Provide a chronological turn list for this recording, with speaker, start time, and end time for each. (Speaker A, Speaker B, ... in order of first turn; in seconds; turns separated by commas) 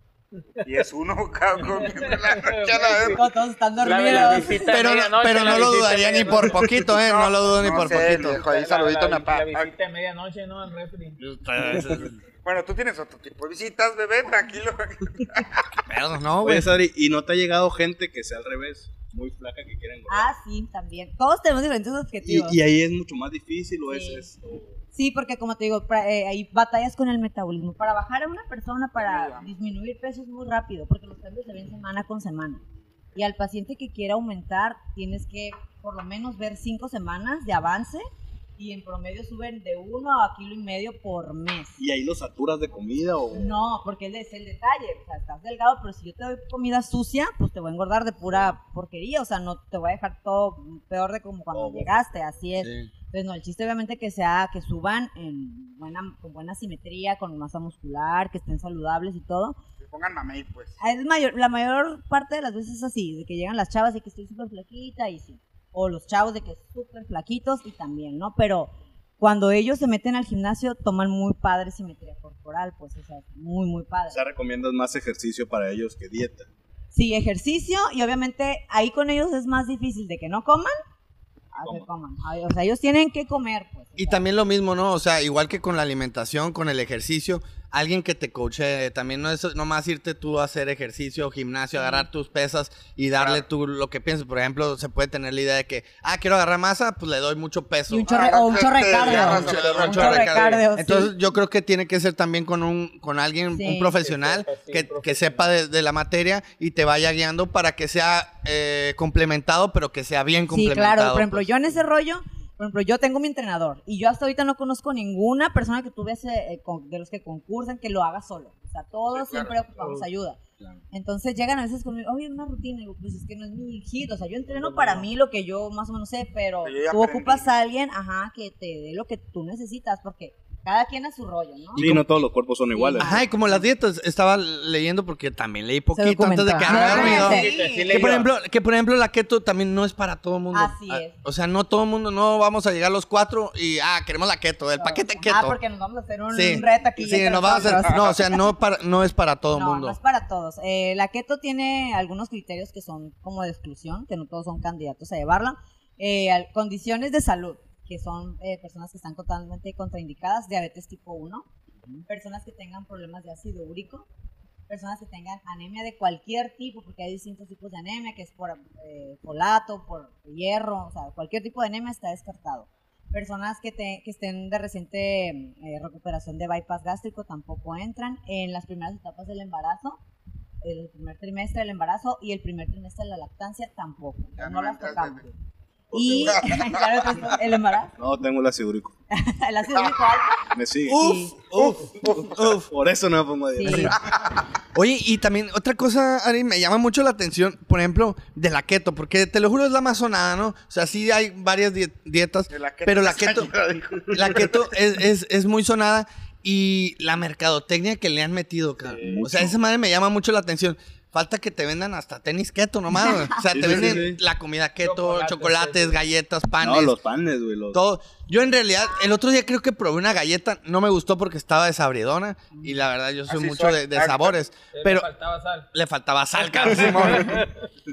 Speaker A: 0.6-3.2, Speaker B: 1.7-3.2, Speaker C: 3.1-4.6, Speaker B: 3.8-6.7, Speaker D: 4.7-8.4, Speaker A: 6.9-9.7, Speaker B: 8.2-11.2, Speaker D: 11.2-12.2, Speaker A: 12.4-15.7, Speaker D: 15.9-16.7, Speaker E: 16.4-20.3, Speaker C: 20.1-22.6, Speaker E: 22.2-24.8, Speaker C: 23.9-24.3, Speaker C: 24.9-32.6, Speaker A: 29.0-29.5, Speaker C: 33.1-41.8, Speaker E: 41.8-43.6, Speaker C: 43.3-59.6, Speaker E: 51.5-52.0, Speaker D: 52.6-52.9, Speaker A: 59.8-60.8, Speaker C: 60.8-74.2, Speaker E: 74.1-76.5, Speaker C: 76.9-80.8, Speaker C: 81.5-84.2, Speaker D: 84.0-98.1, Speaker C: 97.9-101.1, Speaker A: 98.1-100.5, Speaker D: 98.9-111.5, Speaker C: 103.5-103.9, Speaker B: 104.0-105.5, Speaker C: 110.5-120.4, Speaker A: 119.1-119.6, Speaker B: 119.8-120.1, Speaker C: 120.9-133.6, Speaker B: 124.5-125.1, Speaker A: 126.6-127.5, Speaker E: 131.8-133.2, Speaker D: 131.8-132.1, Speaker D: 133.0-145.6, Speaker C: 135.9-138.1, Speaker B: 136.6-138.3, Speaker A: 136.7-138.1, Speaker C: 140.5-141.2, Speaker C: 144.8-148.4, Speaker D: 146.3-150.0, Speaker A: 147.6-148.2, Speaker C: 149.5-164.1, Speaker C: 164.7-180.0, Speaker C: 180.6-185.3, Speaker A: 184.4-185.2, Speaker E: 185.9-186.4, Speaker C: 185.9-187.9, Speaker A: 186.1-187.3, Speaker E: 188.0-188.9, Speaker C: 189.1-191.4, Speaker A: 189.8-190.0, Speaker E: 190.5-191.1, Speaker D: 190.9-192.7, Speaker E: 191.6-194.0, Speaker A: 191.8-192.3, Speaker C: 193.5-193.9, Speaker A: 194.0-194.4, Speaker D: 194.7-203.5, Speaker A: 202.5-204.7, Speaker D: 204.1-217.0, Speaker E: 208.9-209.6, Speaker C: 213.0-213.3, Speaker E: 213.4-214.2, Speaker B: 214.8-215.9, Speaker E: 216.6-217.8, Speaker D: 217.7-225.1, Speaker A: 223.3-224.4, Speaker B: 224.7-225.7, Speaker D: 225.7-227.4, Speaker B: 226.4-227.6, Speaker A: 226.4-227.3